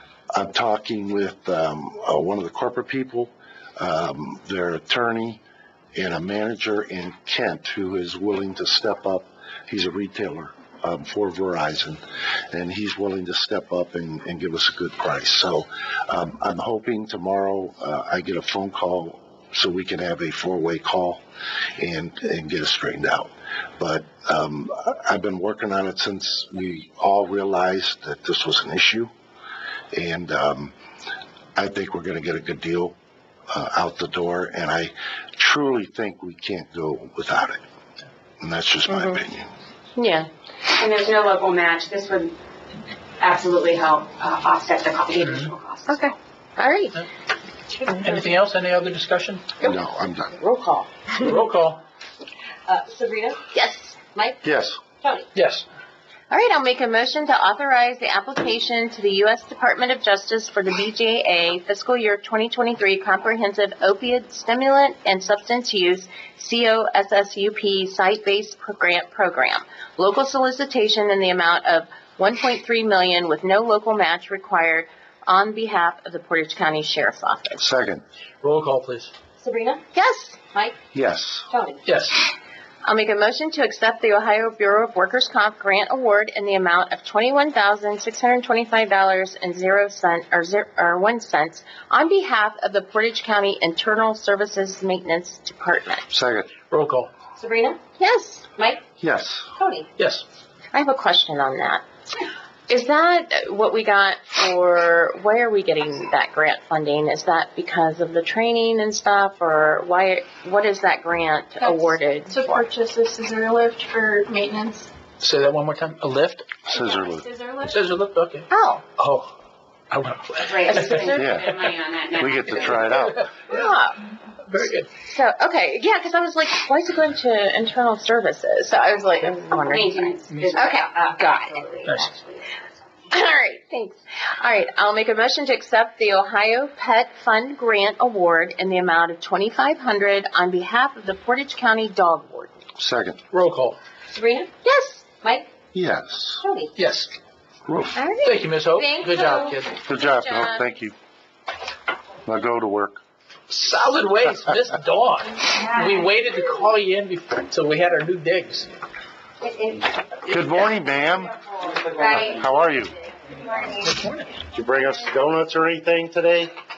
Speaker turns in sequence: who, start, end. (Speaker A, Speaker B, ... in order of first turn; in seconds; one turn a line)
Speaker A: 0.3-5.4
Speaker A: 5.9-21.2
Speaker A: 21.8-29.1
Speaker A: 29.9-30.7
Speaker A: 31.6-33.0
Speaker A: 33.5-37.6
Speaker A: 38.4-39.5
Speaker B: 38.9-39.2
Speaker B: 40.0-40.3
Speaker C: 40.7-42.3
Speaker C: 43.2-46.0
Speaker B: 45.9-47.0
Speaker D: 47.8-49.5
Speaker A: 49.6-50.4
Speaker B: 50.4-51.1
Speaker D: 51.2-51.8
Speaker E: 52.7-53.4
Speaker B: 53.5-54.0
Speaker E: 54.1-54.4
Speaker A: 54.4-54.8
Speaker E: 55.0-55.3
Speaker D: 55.3-55.6
Speaker B: 56.3-77.6
Speaker A: 77.5-78.0
Speaker D: 78.4-79.1
Speaker E: 79.4-79.8
Speaker B: 79.9-80.4
Speaker A: 80.9-81.5
Speaker E: 81.5-81.8
Speaker D: 81.8-82.2
Speaker B: 82.8-96.0
Speaker A: 96.1-96.5
Speaker D: 96.7-97.1
Speaker E: 97.4-97.8
Speaker B: 98.0-98.5
Speaker A: 99.0-99.5
Speaker E: 99.6-99.9
Speaker D: 100.0-100.2
Speaker B: 100.7-101.8
Speaker B: 102.7-112.7
Speaker F: 111.6-114.9
Speaker D: 115.2-116.6
Speaker A: 116.7-117.3
Speaker F: 116.7-117.8
Speaker D: 117.7-118.5
Speaker B: 118.5-118.8
Speaker D: 119.0-119.3
Speaker D: 119.9-121.2
Speaker C: 120.4-122.9
Speaker B: 120.7-121.3
Speaker A: 121.2-121.5
Speaker A: 122.2-123.3
Speaker B: 123.5-124.1
Speaker D: 124.5-124.9
Speaker B: 124.8-130.9
Speaker C: 129.6-132.6
Speaker D: 130.3-130.6
Speaker D: 131.8-132.1
Speaker B: 133.1-142.6
Speaker A: 142.8-143.2
Speaker D: 143.3-143.8
Speaker E: 144.1-144.5
Speaker B: 144.6-145.1
Speaker E: 145.2-145.5
Speaker A: 145.7-146.4
Speaker E: 146.4-146.7
Speaker D: 146.8-147.1
Speaker A: 147.7-148.0
Speaker B: 147.9-150.7
Speaker D: 148.2-149.7
Speaker A: 149.8-150.9
Speaker A: 152.2-153.0
Speaker D: 153.5-158.7
Speaker A: 160.2-162.9
Speaker C: 162.0-162.3
Speaker D: 163.8-164.3
Speaker A: 164.5-166.5